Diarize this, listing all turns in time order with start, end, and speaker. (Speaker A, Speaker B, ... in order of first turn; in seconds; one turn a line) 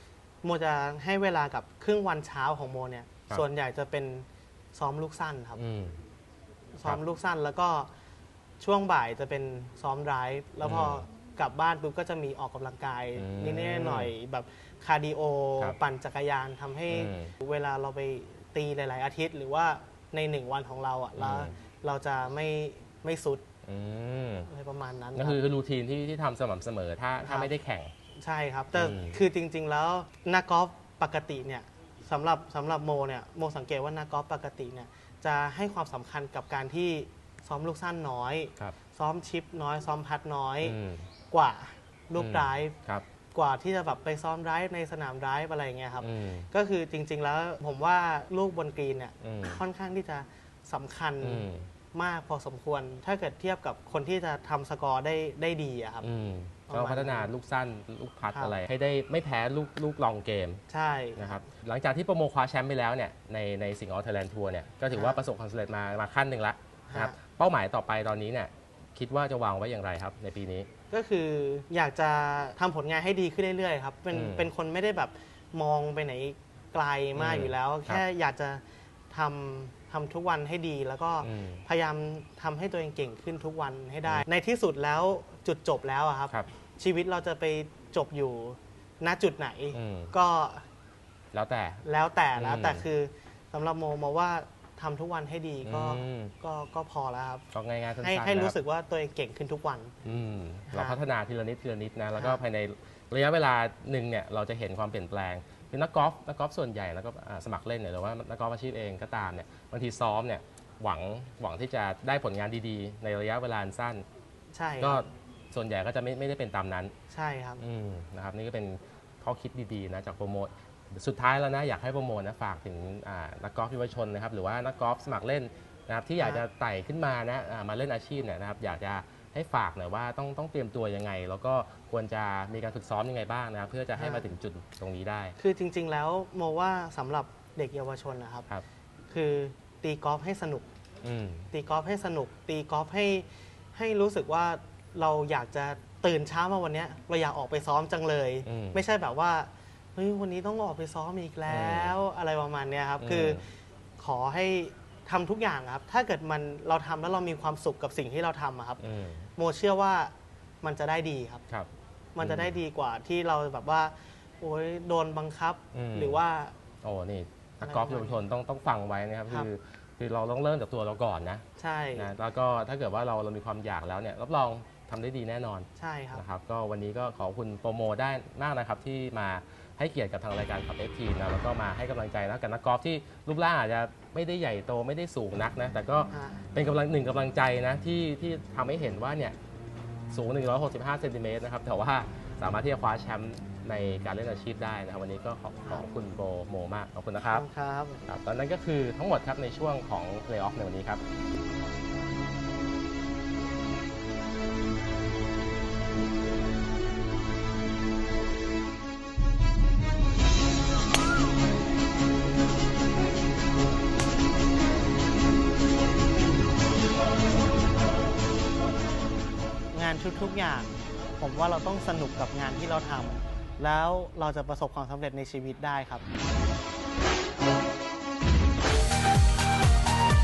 Speaker A: 0.4-5.6
Speaker B: 5.6-6.0
Speaker A: 6.8-7.9
Speaker A: 8.6-23.4
Speaker B: 10.6-11.0
Speaker B: 13.2-14.1
Speaker B: 16.9-17.3
Speaker B: 21.2-21.5
Speaker B: 23.6-24.5
Speaker A: 24.5-25.4
Speaker B: 25.1-27.9
Speaker A: 27.2-27.5
Speaker A: 28.2-40.8
Speaker B: 28.7-29.2
Speaker B: 40.6-41.1
Speaker A: 41.3-42.8
Speaker B: 42.1-43.0
Speaker A: 43.3-56.0
Speaker B: 46.0-46.5
Speaker B: 49.2-49.6
Speaker B: 51.2-51.7
Speaker B: 56.0-60.6
Speaker A: 56.7-57.3
Speaker A: 60.7-61.4
Speaker B: 61.2-70.7
Speaker A: 64.9-65.2
Speaker A: 66.9-67.2
Speaker A: 70.9-90.6
Speaker B: 74.1-74.5
Speaker B: 77.2-78.0
Speaker B: 81.2-81.6
Speaker B: 89.7-90.1
Speaker B: 91.3-91.8
Speaker A: 91.8-97.4
Speaker B: 92.3-92.8
Speaker B: 95.6-96.3
Speaker B: 97.5-98.5
Speaker A: 98.0-99.9
Speaker B: 100.0-114.0
Speaker A: 100.7-101.0
Speaker A: 102.1-102.4
Speaker A: 114.5-115.0
Speaker B: 114.8-116.9
Speaker A: 117.1-117.6
Speaker B: 117.6-135.3
Speaker A: 126.2-126.4
Speaker A: 133.9-134.3
Speaker A: 135.4-138.5
Speaker A: 139.1-140.7
Speaker B: 141.0-141.5
Speaker A: 141.5-153.4
Speaker B: 148.4-148.8
Speaker B: 151.5-151.9
Speaker B: 153.0-153.4
Speaker A: 154.0-158.8
Speaker B: 158.8-159.3
Speaker A: 159.3-161.4
Speaker B: 161.5-162.5
Speaker A: 162.1-166.5
Speaker B: 165.7-166.2
Speaker B: 166.8-171.4
Speaker A: 167.6-168.2
Speaker A: 171.6-172.1
Speaker B: 171.9-189.3
Speaker A: 175.8-176.2
Speaker A: 186.1-186.4
Speaker B: 190.1-197.4
Speaker A: 197.2-198.1
Speaker B: 198.1-201.0
Speaker A: 219.7-226.0